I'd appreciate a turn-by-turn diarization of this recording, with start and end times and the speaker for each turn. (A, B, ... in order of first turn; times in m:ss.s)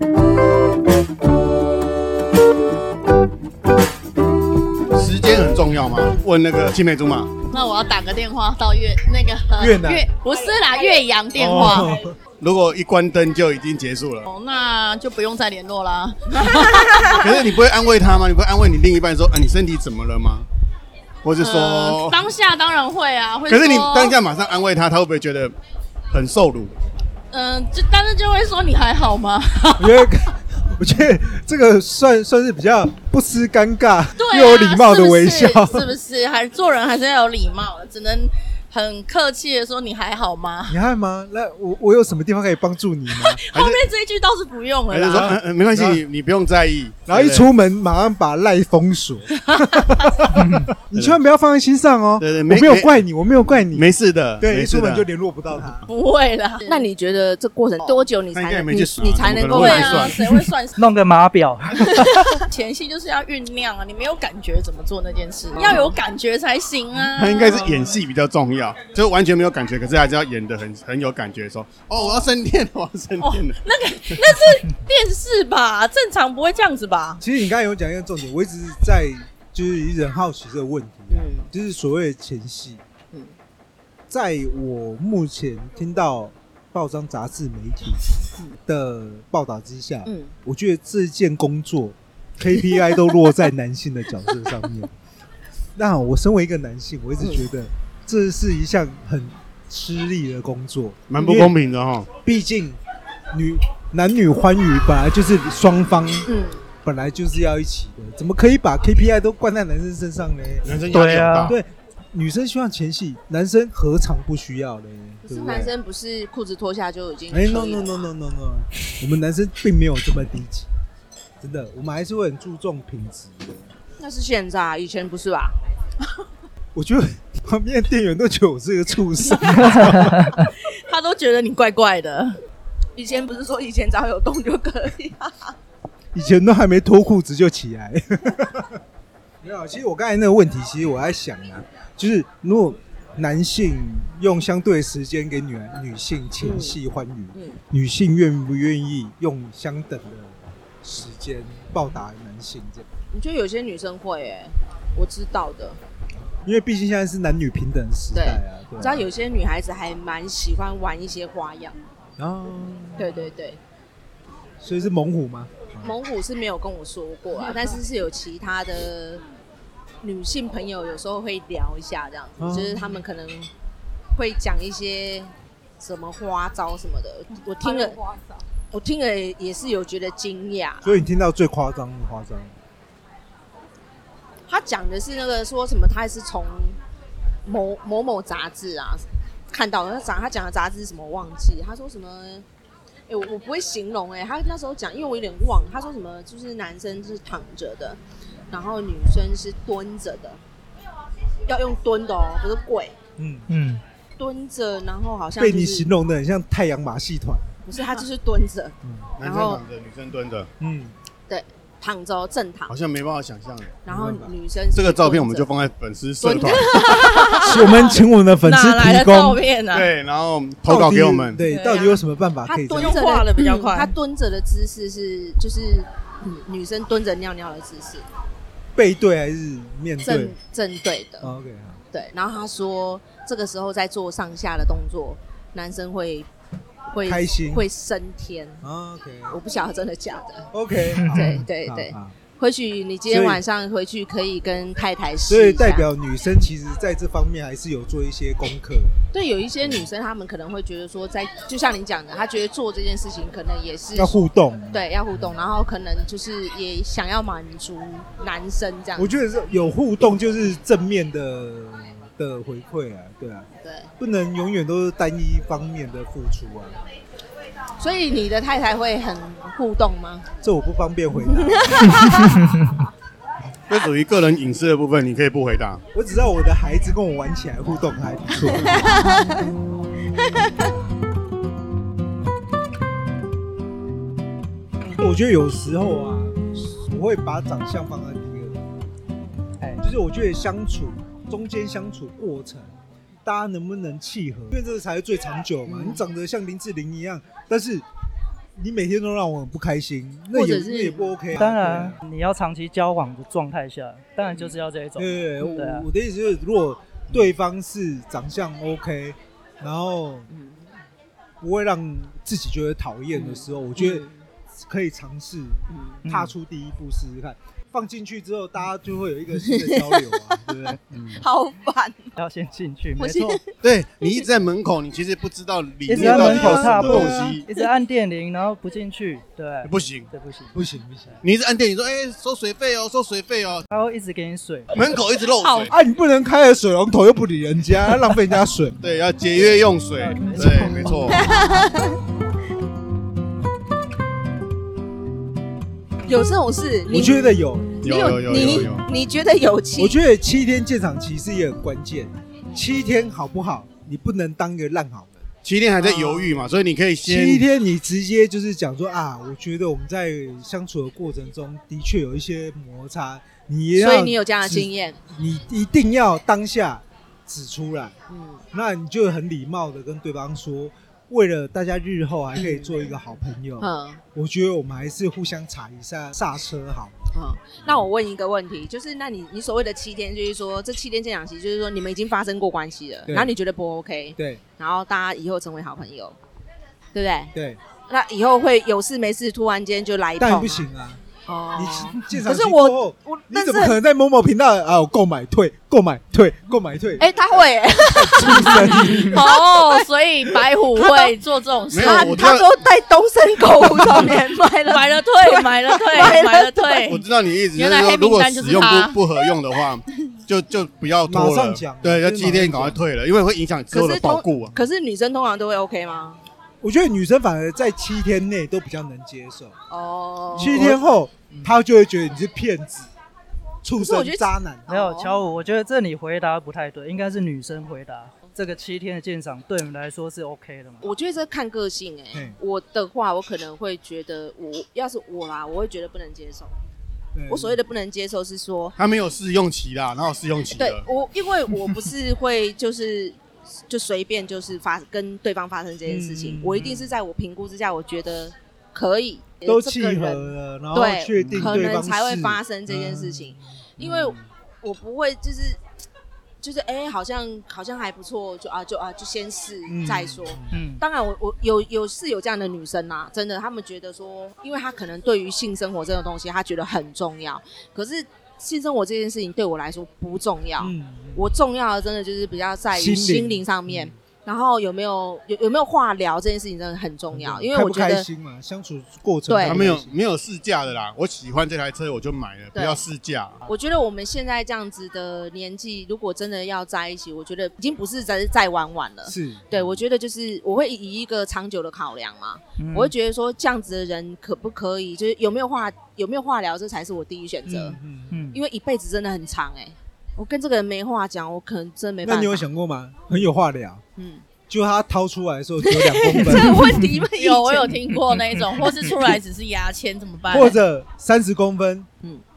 0:04.9-0:07.4 A
0:07.5-0:12.0 B
0:09.6-0:10.1 C
0:11.4-0:12.2 C
0:12.4-0:14.3 A
0:14.3-0:17.4 B
0:17.0-0:20.5 A
0:21.2-0:22.2 A
0:21.4-0:24.2 B
0:23.5-0:25.5 A
0:26.1-0:26.8 A
0:27.3-0:30.1 B
0:29.8-0:35.9 C
0:34.2-0:40.8 B
0:40.7-0:43.4 C
0:43.2-0:45.4 B
0:43.5-0:43.8 A
0:44.9-0:47.5 A
0:45.1-0:46.0 C
0:47.1-0:53.9 C
0:50.4-0:50.7 D
0:52.2-0:53.0 A
0:53.7-0:55.1 A
0:54.4-0:55.9 C
0:55.9-0:56.9 B
0:56.7-1:00.1 E
0:57.8-0:58.0 B
0:58.3-1:00.2 A
0:59.5-1:00.8 B
1:00.4-1:02.4 D
1:02.4-1:07.7 B
1:05.6-1:06.0 E
1:07.2-1:13.6 A
1:13.2-1:17.2 B
1:17.2-1:22.8 C
1:21.1-1:21.5 E
1:24.1-1:34.9 C
1:30.1-1:30.3 E
1:35.8-1:41.6 C
1:37.2-1:37.5 E
1:41.1-1:42.1 A
1:42.2-1:42.8 C
1:43.3-1:46.3 C
1:46.3-1:46.6 E
1:46.8-1:50.7 C
1:50.6-1:51.6 A
1:50.9-1:51.6 D
1:51.4-1:55.7 C
1:55.2-1:58.1 E
1:57.3-2:00.7 C
2:01.4-2:03.7 C
2:04.0-2:05.6 E
2:06.7-2:10.3 C
2:10.4-2:12.4 B
2:13.0-2:15.6 E
2:16.1-2:18.8 C
2:19.4-2:32.9 C
2:26.4-2:26.8 E
2:27.3-2:27.6 E
2:33.1-2:35.8 E
2:36.4-2:39.1 C
2:38.1-2:41.8 E
2:42.2-2:43.3 C
2:43.0-2:43.6 E
2:44.6-2:46.0 C
2:45.8-2:49.2 E
2:50.0-2:53.5 E
2:52.4-2:53.0 C
2:54.1-2:58.0 E
2:57.6-2:58.3 B
2:58.7-3:01.0 E
3:00.8-3:02.5 C
3:04.5-3:06.8 E
3:07.4-3:12.5 E
3:13.1-3:18.0 E
3:18.5-3:20.4 E
3:21.5-3:23.0 E
3:23.2-3:23.5 C
3:23.5-3:23.8 D
3:24.2-3:25.9 E
3:25.4-3:27.6 C
3:27.6-3:29.6 E
3:28.8-3:29.1 C
3:29.2-3:30.5 A
3:30.6-3:31.0 C
3:31.3-3:32.8 E
3:32.7-3:33.8 A
3:33.8-3:35.5 E
3:33.9-3:34.3 C
3:34.7-3:36.7 A
3:36.2-3:37.9 E
3:36.8-3:39.9 B
3:37.4-3:39.4 C
3:39.7-3:41.4 A
3:40.7-3:43.0 C
3:41.4-3:42.0 B
3:42.5-3:48.1 E
3:42.8-3:43.9 B
3:48.8-3:50.4 C
3:50.0-3:51.3 E
3:51.2-3:51.8 C
3:51.9-3:56.3 E
3:56.9-3:58.6 E
3:57.0-3:57.7 C
3:58.6-3:59.4 C
3:59.3-4:00.5 E
4:00.5-4:02.2 C
4:01.0-4:01.3 D
4:01.1-4:05.9 E
4:03.1-4:03.4 C
4:05.3-4:09.0 C
4:09.1-4:19.1 E
4:09.6-4:09.9 C
4:13.9-4:15.4 C
4:19.0-4:26.8 C
4:23.6-4:23.9 E
4:27.8-4:30.2 E
4:30.4-4:31.9 C
4:31.4-4:32.2 E
4:33.7-4:35.8 A
4:35.9-4:39.0 C
4:38.6-4:39.4 E
4:45.0-4:48.6 C
4:49.8-4:52.7 C
4:53.2-4:57.8 C
4:55.7-4:56.0 E
4:58.6-5:02.0 C
5:00.3-5:01.2 E
5:01.4-5:05.9 D
5:05.0-5:10.3 C
5:10.3-5:10.7 E
5:11.4-5:14.1 C
5:13.1-5:14.3 E
5:14.7-5:20.8 C
5:15.7-5:16.0 E
5:16.0-5:16.3 D
5:19.4-5:20.4 E
5:20.9-5:21.2 A
5:21.1-5:22.1 E
5:22.2-5:23.4 D
5:23.0-5:23.5 E
5:23.6-5:27.5 A
5:25.9-5:30.6 D
5:25.9-5:27.4 C
5:29.6-5:30.1 A
5:30.5-5:31.2 C
5:31.2-5:33.7 A
5:33.7-5:34.7 D
5:34.7-5:35.7 A
5:35.4-5:35.7 B
5:35.7-5:38.8 C
5:38.8-5:41.3 A
5:39.9-5:41.5 D
5:41.1-5:42.0 E
5:46.0-5:47.2 E
5:46.9-5:48.8 C
5:47.8-5:48.8 A
5:47.8-5:50.0 E
5:49.8-5:55.2 C
5:55.4-5:57.4 A
5:55.8-5:56.4 E
5:57.0-6:08.0 C
6:03.8-6:05.0 E
6:08.1-6:08.4 E
6:08.5-6:17.0 C
6:12.4-6:12.8 E
6:13.6-6:14.0 E
6:17.1-6:26.2 E
6:23.1-6:23.3 C
6:24.2-6:24.4 C
6:26.9-6:27.3 E
6:27.3-6:27.6 C
6:27.9-6:30.7 E
6:30.2-6:31.0 C
6:31.2-6:33.8 E
6:31.5-6:37.1 C
6:37.0-6:39.6 E
6:37.9-6:39.2 C
6:39.0-6:42.2 B
6:40.8-6:41.1 E
6:41.7-6:42.5 A
6:41.8-6:46.9 E
6:44.7-6:47.0 B
6:46.9-6:54.6 A
6:47.5-6:49.0 B
6:51.1-6:52.8 C
6:53.7-6:56.2 E
6:56.6-6:59.6 C
6:59.7-7:00.8 E
7:00.3-7:02.9 C
7:01.3-7:01.6 D
7:03.6-7:04.7 C
7:03.8-7:05.2 E
7:04.7-7:10.9 D
7:10.8-7:16.5 E
7:17.1-7:17.6 C
7:17.3-7:18.8 E
7:18.8-7:20.9 A
7:20.6-7:35.6 E
7:25.8-7:26.7 C
7:26.6-7:26.9 D
7:29.5-7:34.3 C
7:36.4-7:58.1 E
7:39.7-7:40.6 C
7:40.5-7:40.8 D
7:50.6-7:51.3 C
7:52.7-7:54.0 C
7:57.1-7:59.9 C
7:59.3-7:59.7 E
7:59.4-8:03.4 A
8:02.5-8:02.9 E
8:03.4-8:17.8 E
8:09.0-8:09.8 C
8:12.6-8:12.9 D
8:17.5-8:18.2 C
8:18.1-8:18.4 D
8:18.3-8:22.5 E
8:22.0-8:23.8 C
8:24.0-8:24.2 E
8:24.5-8:26.7 C
8:25.9-8:27.8 E
8:27.2-8:30.6 B
8:30.3-8:31.9 C